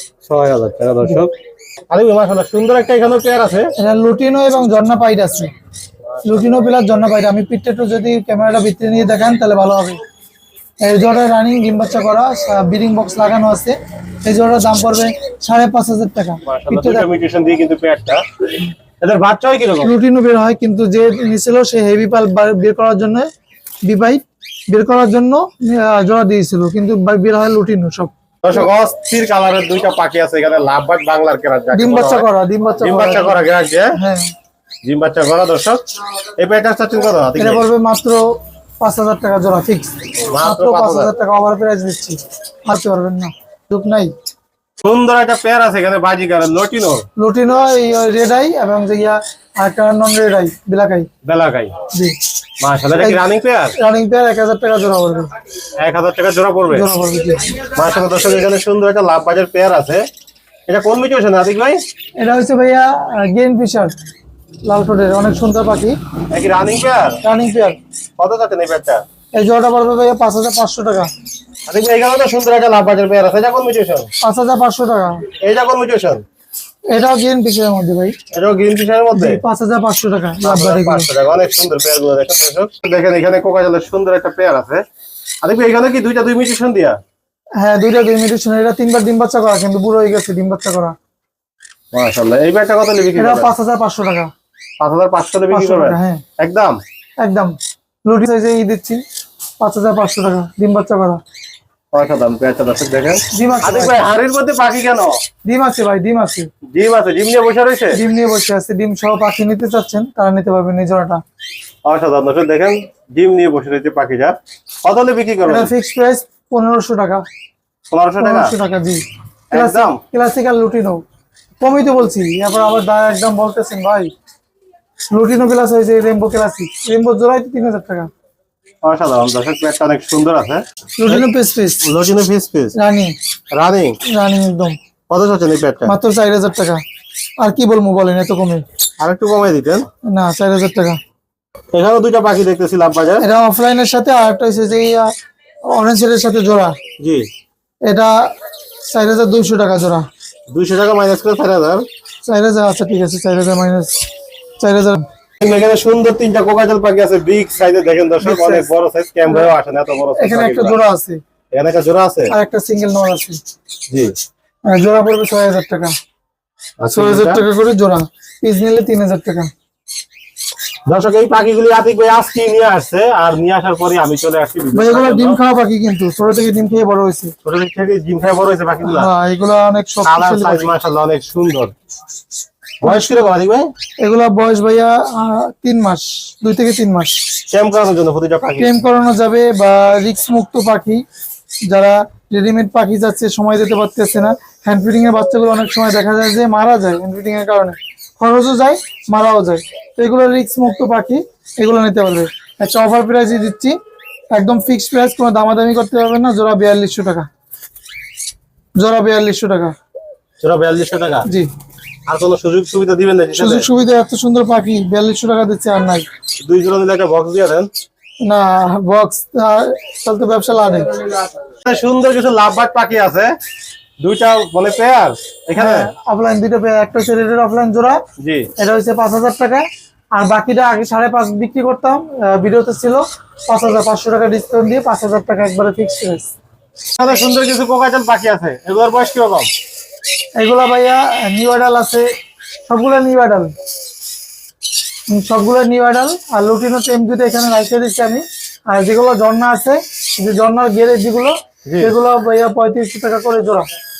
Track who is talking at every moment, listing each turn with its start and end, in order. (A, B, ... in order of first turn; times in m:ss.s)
0:00.2-0:01.3 A
0:01.9-0:03.7 A
0:03.8-0:05.5 B
0:06.2-0:10.0 B
0:10.8-0:17.1 B
0:16.4-0:18.2 A
0:19.0-0:19.9 A
0:19.8-0:23.3 B
0:23.8-0:28.7 B
0:28.4-0:32.2 A
0:31.7-0:33.4 B
0:32.8-0:34.0 A
0:34.0-0:34.3 B
0:34.8-0:35.8 A
0:36.4-0:37.6 A
0:37.4-0:38.2 B
0:38.8-0:44.1 B
0:40.3-0:41.1 A
0:44.8-0:47.0 A
0:47.2-0:51.1 B
0:51.2-0:51.8 A
0:52.6-0:53.7 A
0:52.9-0:53.2 B
0:53.8-0:55.3 B
0:55.8-0:56.9 A
0:56.7-0:57.5 B
0:57.5-1:00.0 A
1:00.7-1:01.8 A
1:02.2-1:03.9 B
1:04.6-1:06.0 B
1:06.3-1:07.2 A
1:07.2-1:07.8 B
1:08.2-1:09.0 A
1:09.3-1:11.1 B
1:11.7-1:14.1 A
1:14.2-1:15.2 B
1:15.4-1:16.2 A
1:16.9-1:18.2 B
1:18.3-1:19.4 A
1:19.1-1:21.1 B
1:20.4-1:24.8 A
1:25.4-1:27.0 A
1:27.6-1:30.9 B
1:31.9-1:33.5 A
1:33.2-1:34.3 B
1:34.8-1:36.8 A
1:35.5-1:36.2 B
1:37.2-1:37.5 B
1:38.0-1:39.0 B
1:39.6-1:41.2 B
1:41.9-1:45.1 A
1:43.3-1:44.0 B
1:45.4-1:46.5 B
1:46.7-1:48.0 A
1:47.9-1:51.2 B
1:51.8-1:55.7 A
1:55.4-1:57.2 B
1:57.9-1:58.5 A
1:58.2-2:01.0 B
1:59.5-2:00.0 A
2:01.6-2:04.1 B
2:05.1-2:08.1 B
2:08.8-2:11.2 A
2:11.0-2:11.8 B
2:11.8-2:12.7 A
2:12.7-2:13.1 B
2:13.5-2:14.0 A
2:14.1-2:14.8 B
2:15.1-2:16.0 A
2:15.8-2:16.8 B
2:17.4-2:18.6 B
2:19.0-2:19.8 A
2:20.1-2:21.0 B
2:21.7-2:23.2 A
2:23.2-2:25.1 B
2:25.7-2:26.7 B
2:27.0-2:27.2 A
2:27.8-2:28.1 B
2:28.9-2:30.0 B
2:30.5-2:31.8 A
2:32.2-2:34.0 B
2:34.6-2:35.0 B
2:35.4-2:40.8 A
2:38.2-2:38.7 B
2:39.2-2:39.5 B
2:40.2-2:41.2 B
2:41.5-2:42.3 A
2:42.3-2:43.4 B
2:44.7-2:45.9 B
2:46.8-2:47.4 A
2:46.9-2:49.5 B
2:50.9-2:55.4 A
2:54.7-2:57.3 B
2:57.4-2:59.1 A
2:58.8-3:00.7 B
3:00.0-3:01.7 A
3:02.8-3:03.4 B
3:02.8-3:03.7 A
3:04.0-3:07.3 B
3:07.5-3:08.8 A
3:08.6-3:11.0 B
3:11.7-3:23.8 B
3:24.3-3:27.3 B
3:28.8-3:29.7 B
3:30.4-3:31.3 A
3:32.1-3:33.6 A
3:33.4-3:36.0 B
3:36.4-3:37.7 A
3:38.2-3:41.1 B
3:41.6-3:43.3 A
3:44.0-3:45.9 A
3:45.6-3:48.0 B
3:48.2-3:48.5 A
3:48.6-3:56.3 B
3:57.0-3:59.5 A
4:00.4-4:02.1 B
4:02.7-4:03.5 B
4:05.1-4:13.7 B
4:11.6-4:11.9 A